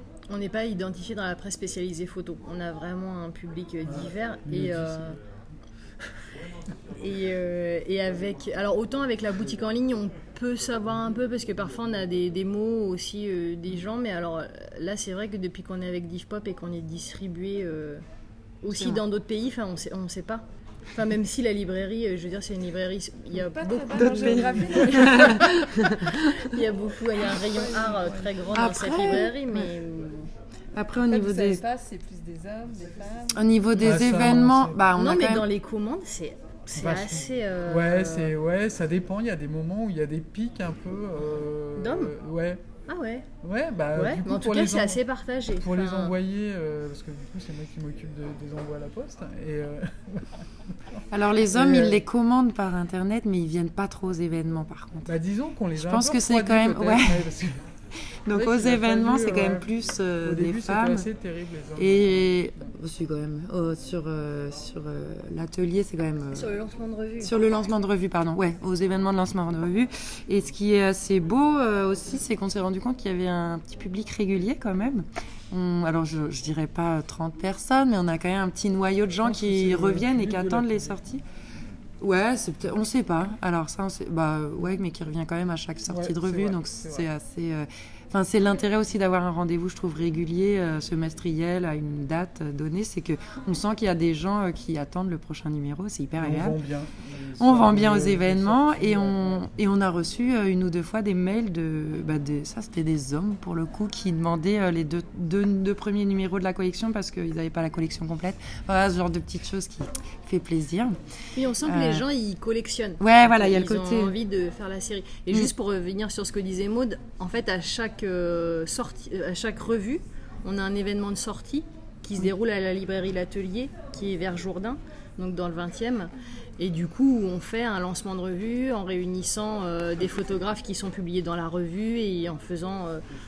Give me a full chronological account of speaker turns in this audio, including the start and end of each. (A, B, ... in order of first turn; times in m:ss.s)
0:00.3-0:05.2 A
0:04.5-0:05.0 B
0:07.0-0:18.0 A
0:18.6-0:25.3 A
0:18.7-0:19.0 C
0:23.3-0:25.6 D
0:23.9-0:26.6 C
0:26.2-0:30.3 A
0:27.4-0:28.4 D
0:28.5-0:29.7 C
0:30.7-0:31.6 C
0:31.0-0:34.4 D
0:33.3-0:35.4 C
0:33.8-0:34.8 B
0:34.9-0:38.3 A
0:36.8-0:42.6 B
0:41.8-0:42.1 A
0:42.9-0:43.3 A
0:43.4-0:45.0 B
0:43.9-0:46.1 A
0:45.6-0:52.0 B
0:51.1-0:55.1 C
0:55.0-0:57.6 B
0:55.7-0:57.3 C
0:58.2-1:01.1 C
0:58.3-0:59.7 B
1:00.2-1:02.6 B
1:01.8-1:06.6 C
1:06.3-1:07.4 A
1:07.2-1:21.2 C
1:19.2-1:21.0 B
1:22.0-1:36.7 C
1:25.9-1:27.1 B
1:36.2-1:39.3 B
1:37.4-1:51.0 C
1:51.3-2:13.0 A
1:51.6-1:52.0 C
1:53.0-1:54.1 C